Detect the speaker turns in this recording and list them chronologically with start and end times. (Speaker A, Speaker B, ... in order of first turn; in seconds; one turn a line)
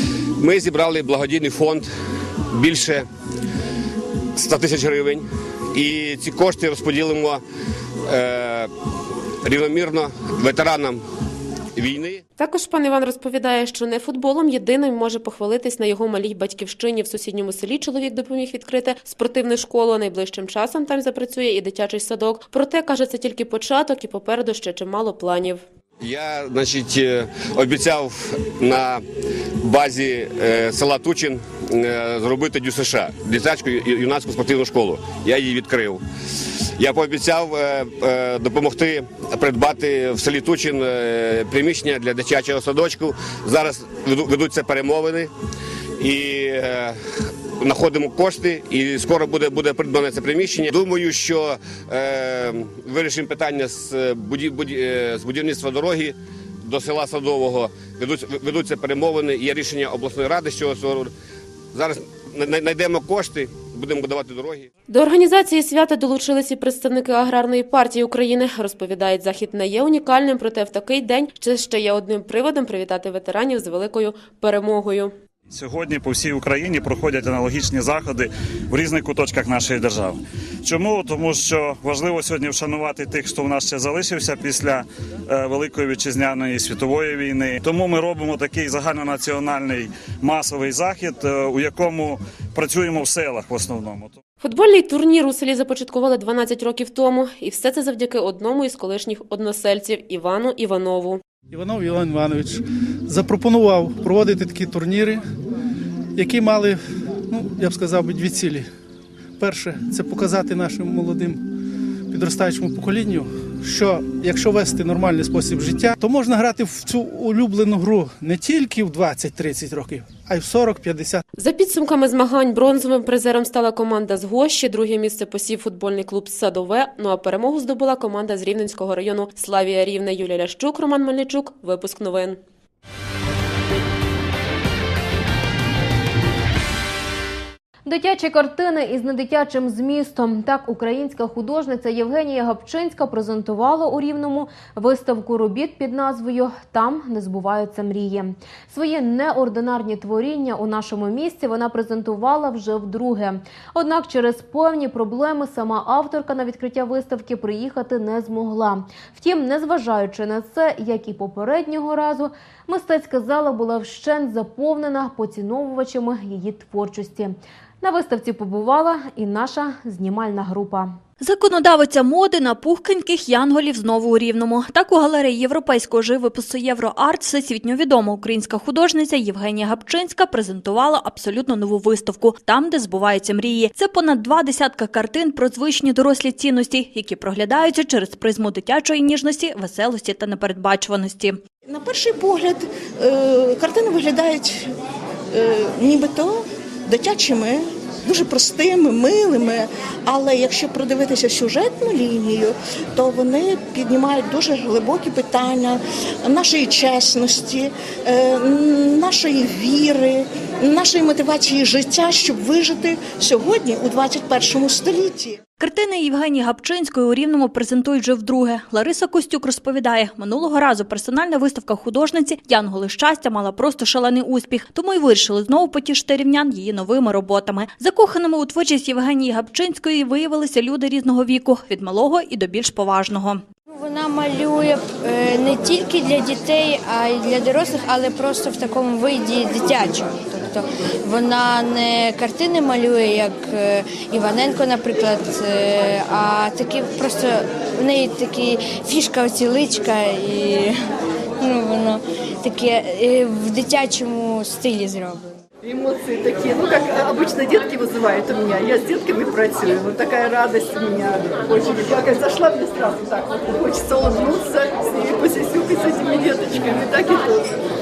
Speaker A: 0.4-1.9
Speaker A: 2.5-3.0
Speaker A: 4.4-7.4
Speaker A: 8.1-8.7
Speaker A: 9.4-11.0
Speaker A: 11.8-12.2
Speaker B: 12.4-25.6
Speaker A: 26.0-29.0
Speaker A: 29.6-36.0
Speaker A: 36.8-45.3
Speaker A: 46.0-47.0
Speaker A: 47.6-61.1
Speaker A: 61.7-64.7
Speaker B: 64.9-75.1
Speaker C: 75.5-80.1
Speaker C: 80.7-94.1
Speaker B: 94.4-101.2
Speaker D: 101.5-105.2
Speaker D: 106.2-106.8
Speaker D: 107.3-108.7
Speaker D: 109.4-111.4
Speaker D: 112.1-121.2
Speaker B: 121.4-132.4
Speaker E: 137.8-171.0
Speaker F: 171.2-191.4
Speaker G: 191.6-194.7
Speaker G: 195.3-215.4
Speaker F: 215.6-233.4
Speaker H: 233.7-250.8
Speaker H: 251.4-255.4
Speaker I: 255.6-267.5